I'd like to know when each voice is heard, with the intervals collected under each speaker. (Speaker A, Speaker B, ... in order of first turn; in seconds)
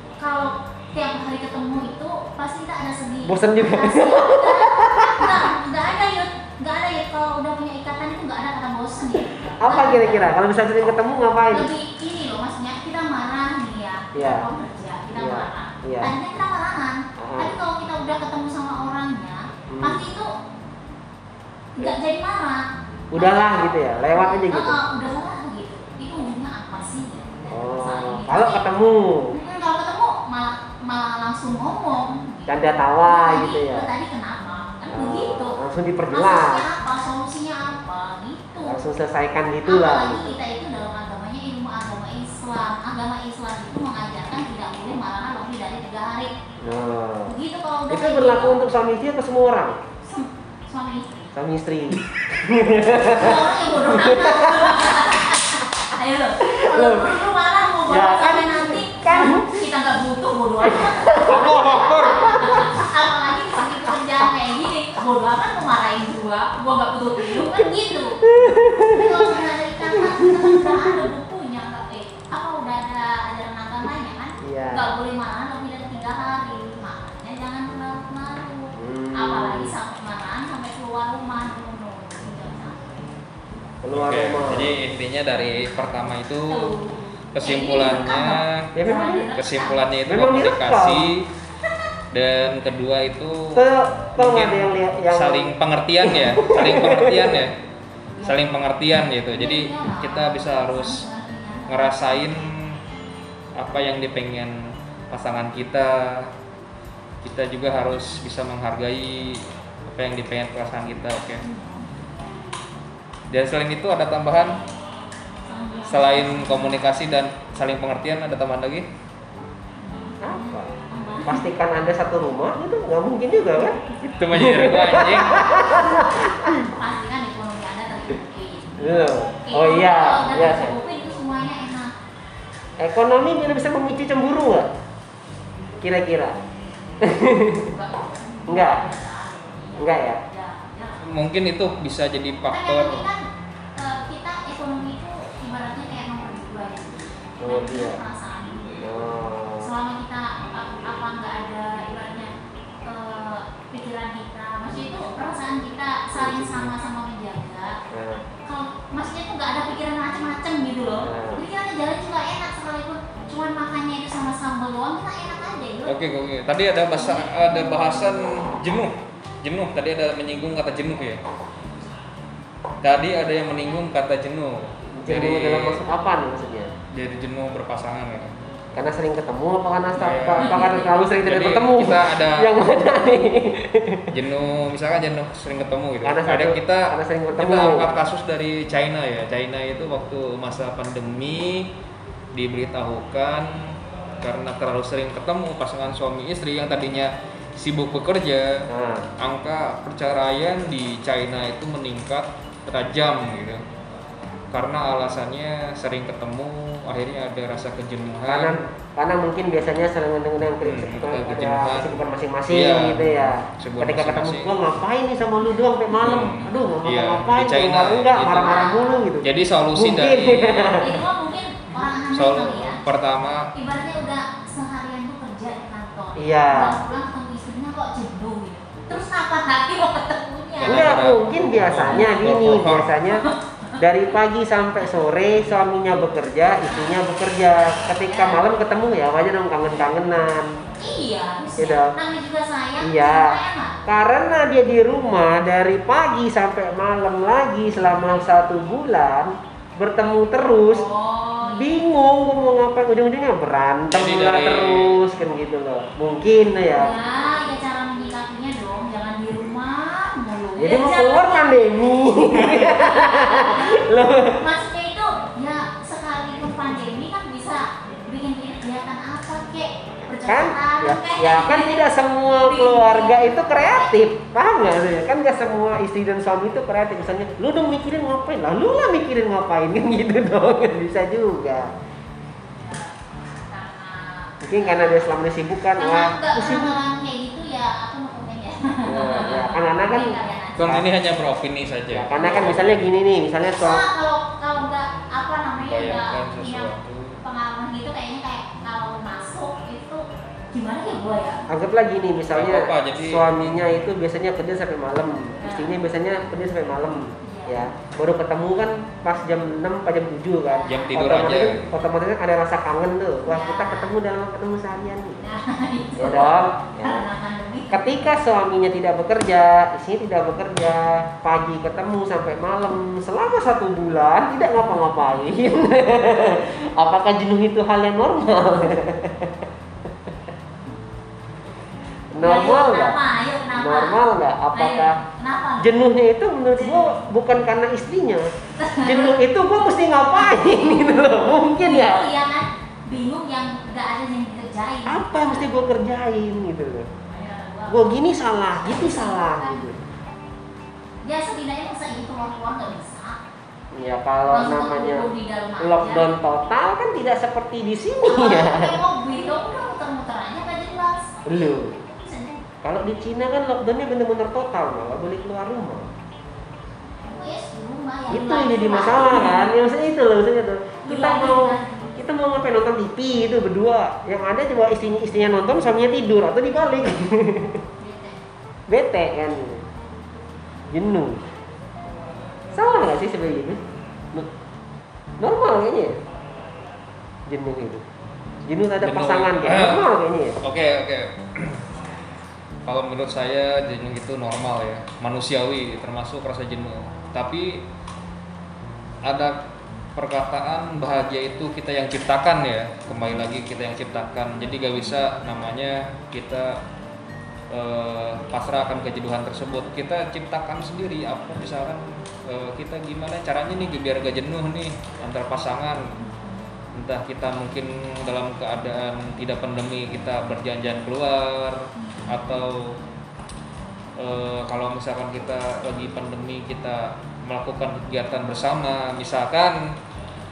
Speaker A: 0.2-10.3, 11.5-20.3, 21.8-28.7, 29.3-35.6, 36.1-38.8, 39.6-46.3, 47.3-48.6, 50.0-51.3, 53.1-68.2, 68.9-83.1, 86.5-89.8, 98.2-98.4, 99.3-102.2, 111.4-111.9, 115.5-116.9, 119.8-121.5, 126.5-131.9, 137.5-141.1, 142.5-143.2, 143.8-149.1, 149.6-152.3, 152.9-157.8, 158.5-165.9, 166.9-168.5, 180.5-180.9, 216.0-216.5, 218.4-219.0, 220.8-222.8, 223.5-231.0, 231.9-232.1, 233.1-233.8, 236.7-237.0, 237.9-238.5, 240.8-243.8, 250.6-251.7, 256.8-263.8, 264.4-271.8, 272.4-273.9, 282.5-285.1, 285.8-290.8, 293.6-301.4, 305.4-305.7, 307.2-307.6, 310.5-310.9, 313.2-313.9, 315.2-317.9, 332.2-334.0, 334.5-335.7, 336.6-337.0, 338.6-339.2, 340.2-340.9, 341.6-345.5, 347.1-347.9, 348.6-349.6, 351.0-353.2, 354.3-356.1, 358.1-362.4, 367.1-369.5, 370.8-372.0, 377.8-378.2, 416.0-416.2, 421.8-422.1
Speaker B: 3.2-5.5, 9.6-11.7, 14.2-14.5, 15.1-16.1, 17.2-17.5, 19.7-20.0, 23.1-24.8, 27.5-29.3, 32.5-33.9, 34.9-36.6, 38.6-40.4, 46.6-47.4, 47.9-49.8, 51.3-55.1, 56.4-57.2, 57.9-59.6, 60.6-62.7, 67.2-71.1, 74.4-74.9, 78.8-79.7, 83.8-84.7, 88.8-89.3, 90.1-91.1, 93.5-97.4, 120.2-123.8, 124.3-126.7, 128.8-130.8, 132.8-134.7, 135.8-136.4, 137.0-137.7, 138.5-138.8, 139.8-140.2, 147.4-148.0, 148.8-149.7, 156.1-156.7, 157.9-158.2, 161.0-161.4, 175.0-176.7, 178.8-184.1, 186.0-187.9, 198.7-199.1, 208.3-221.0, 226.2-226.8, 230.7-233.3, 233.8-240.6, 241.6-242.0, 242.8-250.9, 251.4-256.9, 260.6-264.4, 270.2-281.7, 284.4-286.8, 288.9-290.8, 291.9-293.9, 301.5-315.2, 316.0-317.1, 317.7-329.5, 332.1-333.0, 333.6-335.0, 335.6-338.3, 338.8-342.1, 344.9-346.9, 347.7-349.8, 353.7-355.1, 355.6-358.8, 361.3-361.8, 362.6-365.9, 368.1-377.6, 378.7-379.7, 380.7-381.2, 382.5-383.6, 385.2-386.0, 387.3-387.9, 388.4-390.4
Speaker C: 61.3-62.5, 83.9-86.7, 87.3-88.7, 89.3-91.3, 92.1-97.6, 98.2-101.0, 101.7-102.8, 103.6-106.3, 107.2-111.4, 113.3-114.6, 115.9-118.9, 124.0-125.6, 141.0-143.1, 165.9-171.2, 172.8-175.8, 176.9-178.3, 180.0-182.5, 184.1-191.7, 192.3-203.6, 204.5-208.6, 210.6-212.0, 212.5-214.6, 216.0-218.6, 219.2-220.8, 222.1-223.5, 230.6-232.9, 253.9-255.0, 290.6-292.9, 295.6-297.2, 302.3-303.7, 310.7-311.6, 388.8-389.9, 390.4-391.7, 392.7-397.6, 399.1-399.4, 400.0-406.6, 407.5-415.9, 416.8-422.8, 424.0-429.8